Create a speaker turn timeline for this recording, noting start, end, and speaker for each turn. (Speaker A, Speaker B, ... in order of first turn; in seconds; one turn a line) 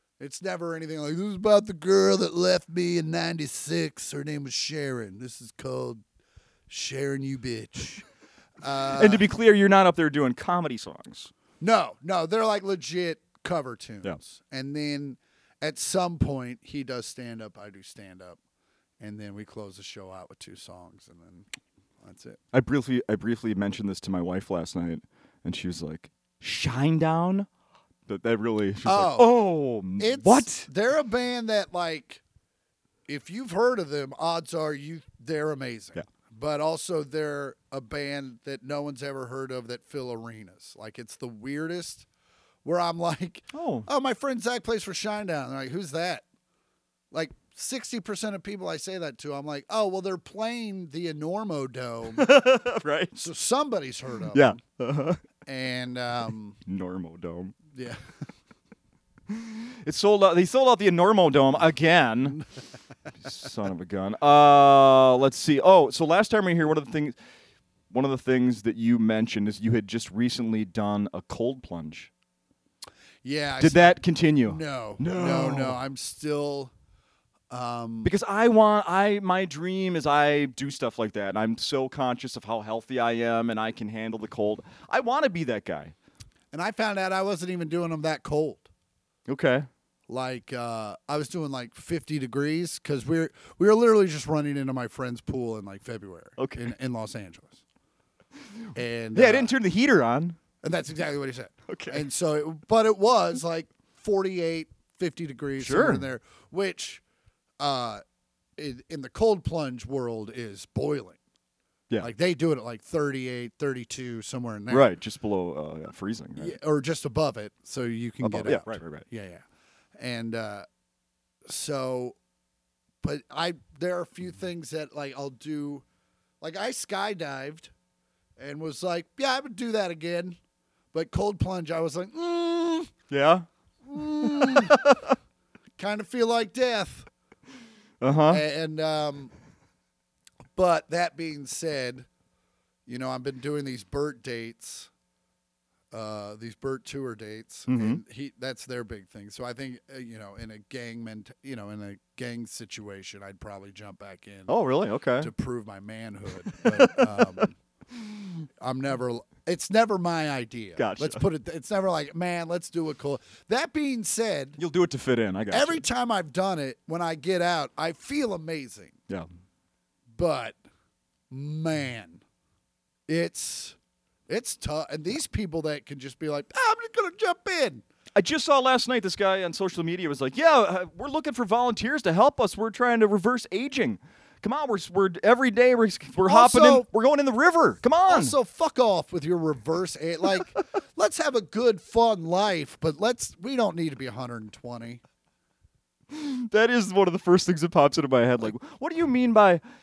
Speaker A: 0.2-6.0
Speaker A: 6.7-8.1
Speaker A: 8.6-9.2
Speaker B: 8.9-11.3
Speaker A: 11.6-18.4
Speaker A: 19.0-21.5
Speaker A: 22.0-22.4
Speaker B: 22.5-27.5
Speaker B: 28.1-30.7
Speaker A: 28.9-29.4
Speaker A: 30.0-32.2
Speaker A: 33.1-42.1
Speaker A: 42.6-46.2
Speaker B: 43.5-43.9
Speaker A: 47.1-52.3
Speaker B: 52.1-53.2
Speaker A: 53.1-54.6
Speaker B: 54.3-55.2
Speaker A: 55.5-56.6
Speaker B: 56.7-57.6
Speaker A: 57.7-58.1
Speaker B: 59.3-62.4
Speaker B: 63.2-67.2
Speaker B: 67.9-72.1
Speaker A: 73.2-76.7
Speaker B: 73.6-75.8
Speaker A: 77.5-78.1
Speaker B: 78.0-86.0
Speaker A: 86.5-88.7
Speaker B: 89.3-89.7
Speaker A: 90.1-97.6
Speaker B: 96.4-96.7
Speaker A: 98.8-99.5
Speaker B: 99.2-100.4
Speaker A: 100.6-107.0
Speaker B: 101.7-102.0
Speaker B: 105.6-106.1
Speaker A: 107.6-108.0
Speaker A: 108.6-111.2
Speaker A: 112.0-114.9
Speaker B: 114.7-116.6
Speaker A: 116.4-119.5
Speaker B: 118.2-119.1
Speaker A: 120.0-120.7
Speaker A: 121.5-122.2
Speaker A: 123.0-125.8
Speaker A: 126.4-127.7
Speaker A: 128.4-130.4
Speaker A: 130.9-132.9
Speaker B: 133.1-133.5
Speaker A: 133.9-134.8
Speaker B: 134.2-135.2
Speaker A: 135.8-137.1
Speaker B: 138.0-138.4
Speaker A: 138.3-139.3
Speaker A: 140.6-142.1
Speaker A: 142.9-144.9
Speaker A: 145.9-154.6
Speaker B: 147.7-148.0
Speaker B: 154.5-155.3
Speaker A: 155.2-157.6
Speaker B: 156.5-157.4
Speaker A: 158.6-164.6
Speaker B: 160.8-161.2
Speaker B: 164.6-165.8
Speaker A: 165.5-169.0
Speaker A: 170.1-170.6
Speaker A: 171.3-172.2
Speaker A: 173.1-173.8
Speaker A: 174.3-177.8
Speaker B: 178.2-188.3
Speaker A: 186.3-186.9
Speaker A: 188.1-195.0
Speaker B: 196.1-199.6